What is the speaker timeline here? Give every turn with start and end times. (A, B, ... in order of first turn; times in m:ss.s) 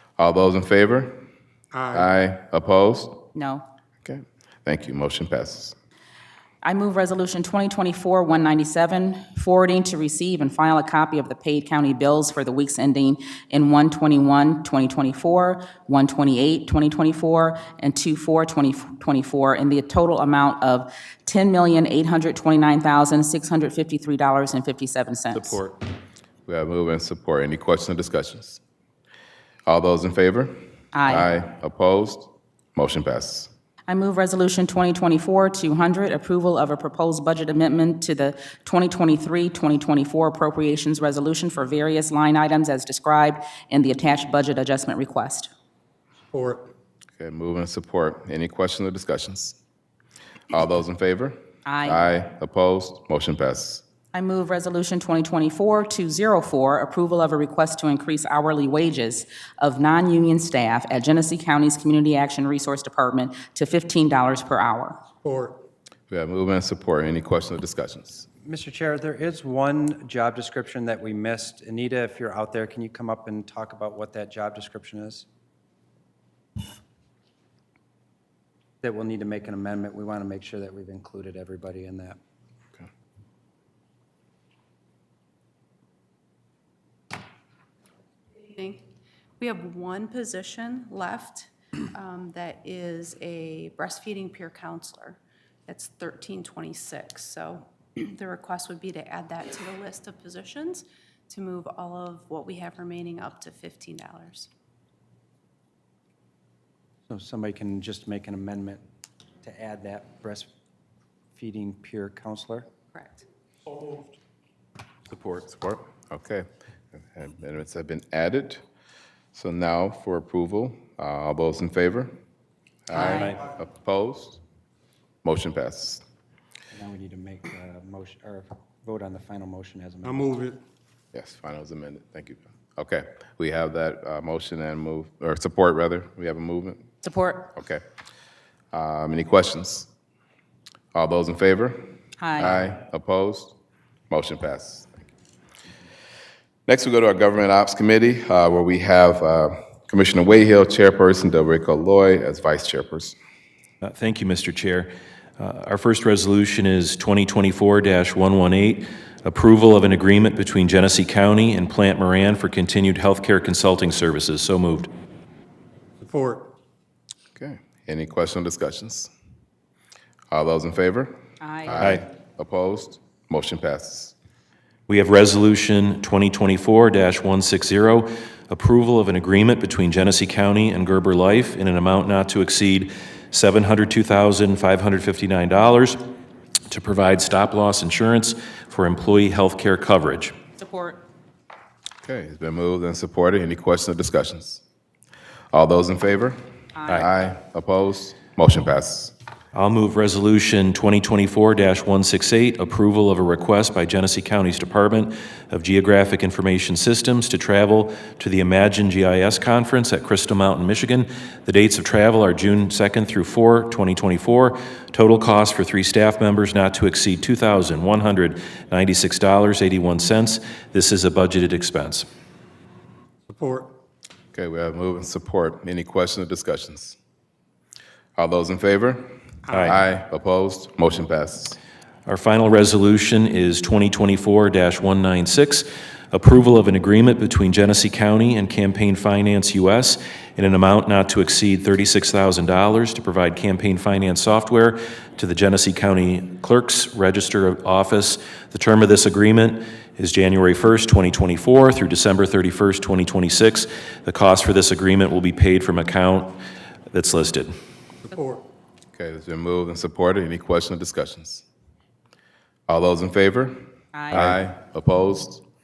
0:00.2-0:01.2 A
0:01.7-0:02.0 B
0:01.9-0:03.2 A
0:03.4-0:03.6 C
0:04.0-0:05.8 A
0:06.6-0:25.6 C
0:25.3-0:25.8 D
0:26.5-0:28.6 A
0:29.7-0:33.5 A
0:30.9-0:31.3 C
0:33.9-0:45.5 C
0:46.3-0:46.7 B
0:47.2-0:49.6 A
0:50.5-0:53.8 A
0:51.6-0:52.0 C
0:54.1-1:05.0 C
1:05.2-1:05.6 B
1:06.1-1:08.2 A
1:08.4-1:15.2 E
1:18.8-1:22.2 E
1:28.3-1:28.8 F
1:29.4-1:44.5 F
1:47.1-1:48.8 E
1:49.4-1:50.5 E
1:51.3-1:52.7 E
1:52.9-1:53.2 F
1:55.3-1:58.6 A
1:59.3-2:02.1 A
2:02.9-2:04.4 A
2:03.0-2:03.4 D
2:05.2-2:06.0 A
2:06.7-2:10.5 E
2:10.0-2:10.6 B
2:11.1-2:16.8 A
2:17.0-2:17.5 C
2:17.5-2:17.8 A
2:18.7-2:19.9 A
2:20.9-2:23.6 A
2:22.2-2:22.6 C
2:24.1-2:25.1 A
2:26.7-2:33.2 A
2:33.8-2:44.9 D
2:46.0-2:46.5 B
2:47.4-2:49.1 A
2:50.3-2:54.1 A
2:51.4-2:51.8 C
2:51.8-2:52.0 D
2:54.9-3:06.0 D
3:06.7-3:10.4 D
3:10.6-3:11.0 C
3:12.0-3:14.6 A
3:15.5-3:16.4 A
3:16.8-3:17.1 C
3:16.9-3:19.1 A
3:19.5-3:42.1 D
3:43.3-3:43.7 B
3:44.3-3:47.0 A
3:48.2-3:51.6 A
3:52.1-4:16.4 D
4:16.9-4:17.5 D
4:18.1-4:18.4 B
4:18.9-4:21.4 A
4:22.7-4:25.4 A
4:23.9-4:24.4 C